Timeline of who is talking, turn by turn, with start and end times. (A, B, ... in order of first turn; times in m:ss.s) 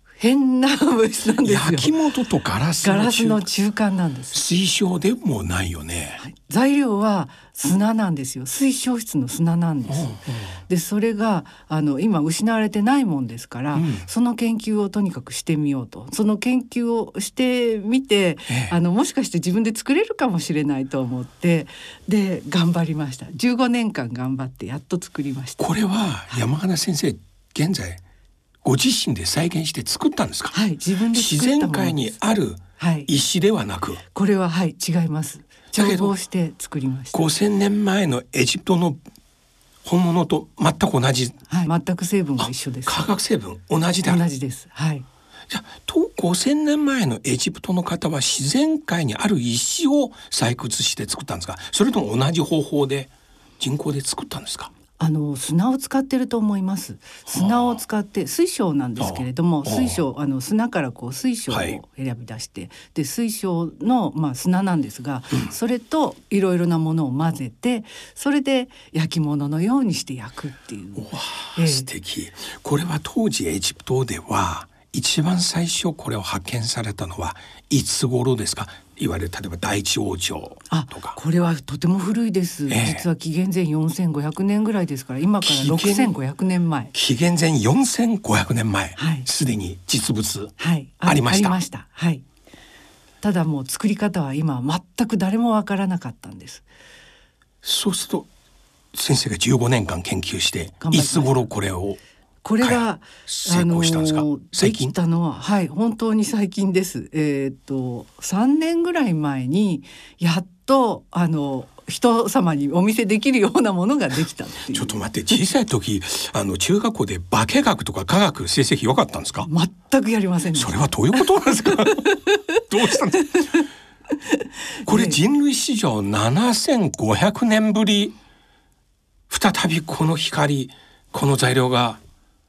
0:00.2-0:02.0 A
0:01.4-0:03.5 B
0:02.8-0:04.4 A
0:04.3-0:06.2 B
0:06.2-0:25.7 A
0:09.9-0:10.6 B
0:13.7-0:14.0 B
0:18.5-0:18.8 B
0:25.6-0:28.0 B
0:28.6-0:30.6 B
0:30.5-0:32.1 A
0:31.1-0:34.0 B
0:32.8-0:33.1 A
0:34.1-0:37.2 A
0:35.7-0:36.1 B
0:37.1-0:39.0 B
0:39.8-0:41.4 B
0:41.5-0:43.1 A
0:42.4-0:44.2 B
0:44.0-0:45.0 A
0:45.5-0:54.7 B
0:55.0-1:11.9 A
0:57.3-0:57.7 B
0:59.0-1:00.0 B
1:01.5-1:01.8 B
1:11.0-1:21.2 B
1:20.7-1:26.9 A
1:22.7-1:23.0 B
1:25.4-1:26.1 B
1:26.9-1:31.6 B
1:29.0-1:29.2 A
1:30.6-1:32.2 A
1:33.2-1:36.6 A
1:37.6-1:38.3 B
1:38.9-1:42.0 B
1:40.8-1:41.4 A
1:42.4-1:55.0 A
1:42.6-1:44.9 B
1:54.7-1:59.5 B
1:59.5-2:02.6 A
2:00.5-2:03.6 B
2:04.8-2:05.2 A
2:04.8-2:08.2 B
2:09.3-2:12.0 B